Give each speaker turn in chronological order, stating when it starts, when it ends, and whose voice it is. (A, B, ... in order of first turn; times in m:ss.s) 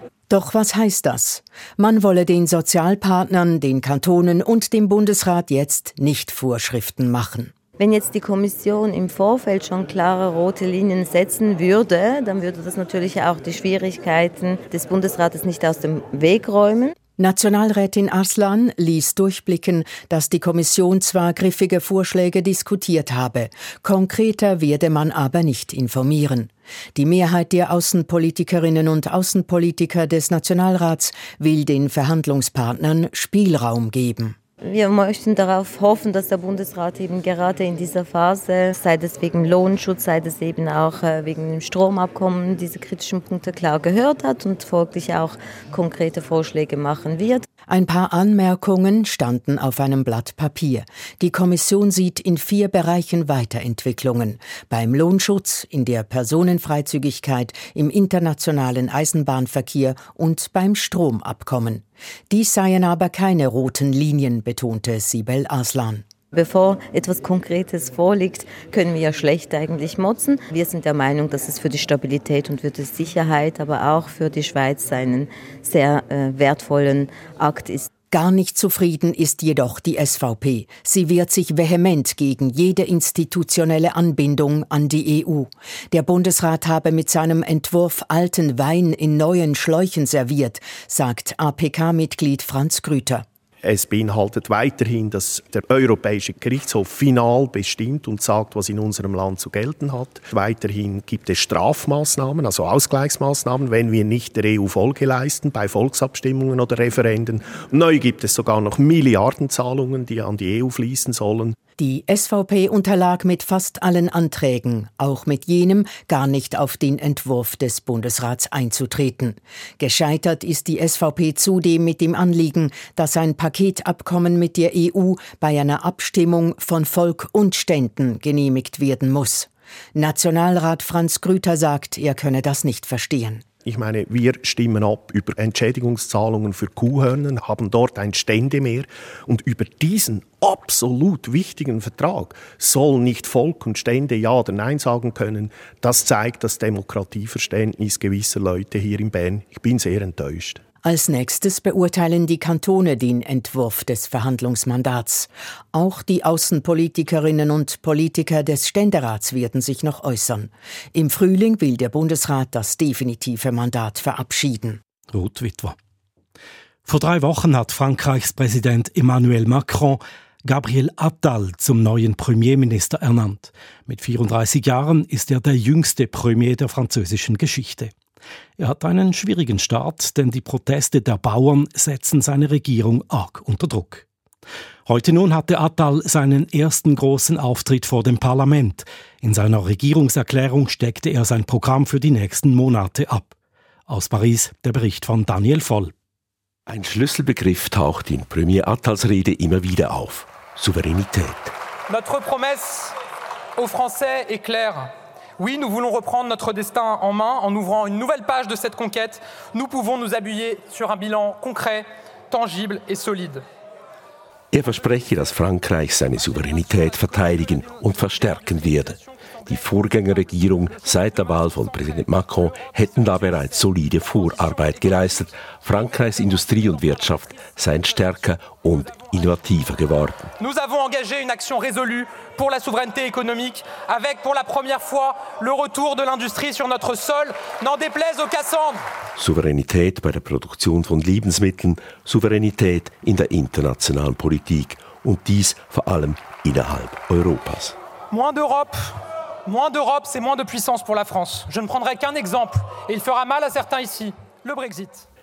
0:00.3-0:07.5 A
0:07.8-0:16.9 B
0:17.2-0:34.4 A
0:34.6-0:47.4 B
0:47.7-1:06.0 A
1:06.3-1:17.9 B
1:18.1-1:33.2 A
1:33.6-1:51.6 C
1:51.8-2:13.4 A
2:13.6-2:30.6 C
2:30.8-2:44.8 A
2:45.1-2:45.7 D
2:46.9-2:57.9 D
2:58.6-3:04.0 D
3:04.9-3:13.3 D
3:13.9-3:15.9 D
3:16.7-3:21.5 E
3:21.9-3:22.9 F
3:23.6-3:33.4 F
3:34.5-3:50.3 E
3:36.2-3:45.2 F
3:46.5-3:47.5 F
3:50.4-3:58.8 F
3:59.2-4:07.8 E
4:08.1-4:15.0 F